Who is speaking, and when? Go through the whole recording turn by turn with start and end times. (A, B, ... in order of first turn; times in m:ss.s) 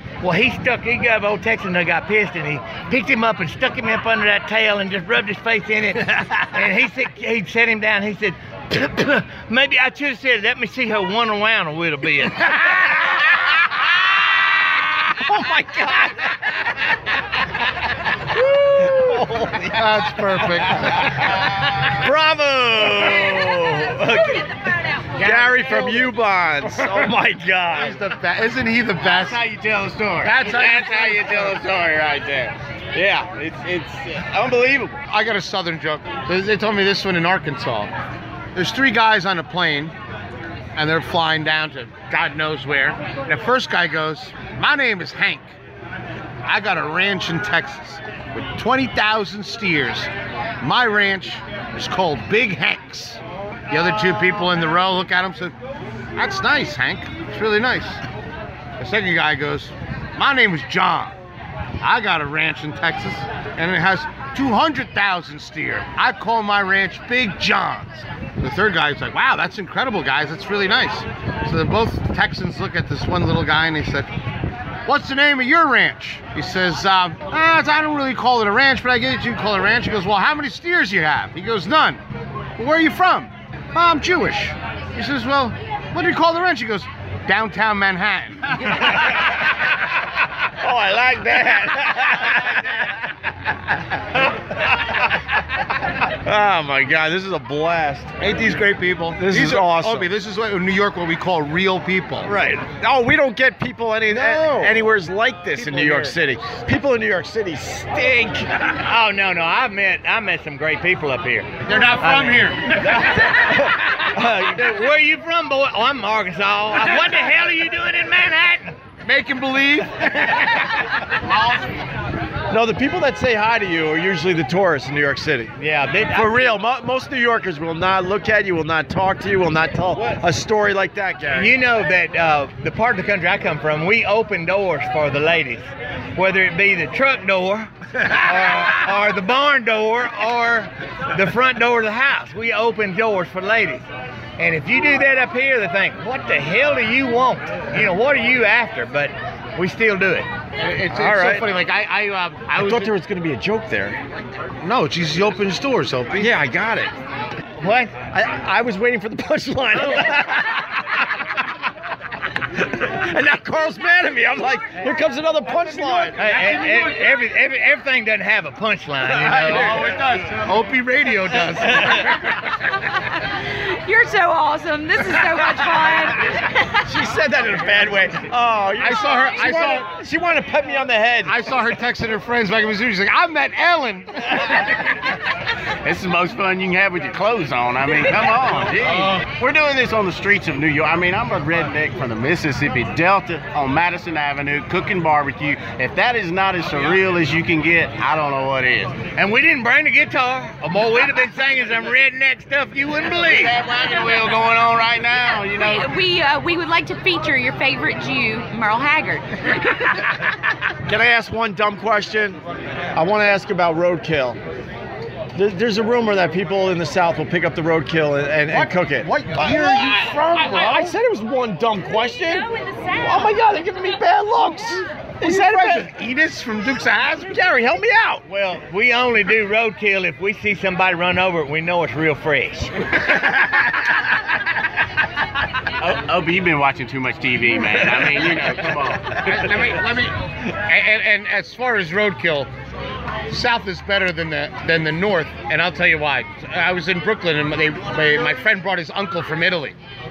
0:00.2-0:12.9 A
0:15.1-0:16.3 B
0:18.3-0:19.8 B
0:19.7-0:21.3 C
0:21.8-0:24.5 B
0:25.1-0:28.0 B
0:25.2-0:26.0 C
0:27.7-0:29.4 C
0:29.0-0:35.0 D
0:30.2-0:31.6 C
0:35.1-0:37.9 C
0:38.5-0:39.9 C
0:40.8-0:45.5 C
0:46.4-0:50.1 C
0:50.6-0:53.2 C
0:53.7-0:55.5 C
0:56.2-0:58.0 C
0:58.8-1:01.1 C
1:01.8-1:14.1 C
1:14.8-1:22.0 C
1:22.6-1:29.0 C
1:30.6-1:32.5 B
1:36.2-1:38.3 B
1:38.2-1:42.3 C
1:39.2-1:40.1 B
1:42.2-1:48.5 B
1:44.2-1:44.7 C
1:48.7-1:58.7 A
1:51.6-1:53.0 C
1:52.9-1:53.7 B
1:59.0-2:00.6 C
2:01.3-2:01.6 C
2:02.5-2:05.5 B
2:05.6-2:06.4 A
2:06.1-2:11.5 B
2:11.3-2:23.8 A
2:24.4-2:30.3 A
2:30.6-2:32.9 C
2:30.9-2:31.5 B
2:32.5-2:34.0 B
2:34.6-2:36.3 C
2:36.1-2:36.9 B
2:37.6-2:38.0 A
2:38.1-2:40.6 B
2:42.7-2:46.2 B
2:46.1-2:49.8 A
2:49.2-2:50.0 B
2:49.5-2:52.3 C
2:51.7-2:52.1 B
2:53.6-2:56.4 E
2:56.8-3:01.3 B
2:58.8-2:59.9 C
3:01.2-3:04.6 C
3:05.8-3:19.0 D
3:19.1-3:23.5 A
3:23.2-3:25.9 D
3:25.3-3:29.5 E
3:30.8-3:32.4 B
3:32.9-3:34.4 B
3:35.3-3:45.9 B
3:38.5-3:40.9 C
3:42.6-3:42.9 E
3:45.2-3:47.4 C
3:47.3-3:48.2 B
3:48.3-3:52.9 A
3:55.8-3:59.2 D
3:59.2-4:02.5 C
4:03.3-4:09.7 C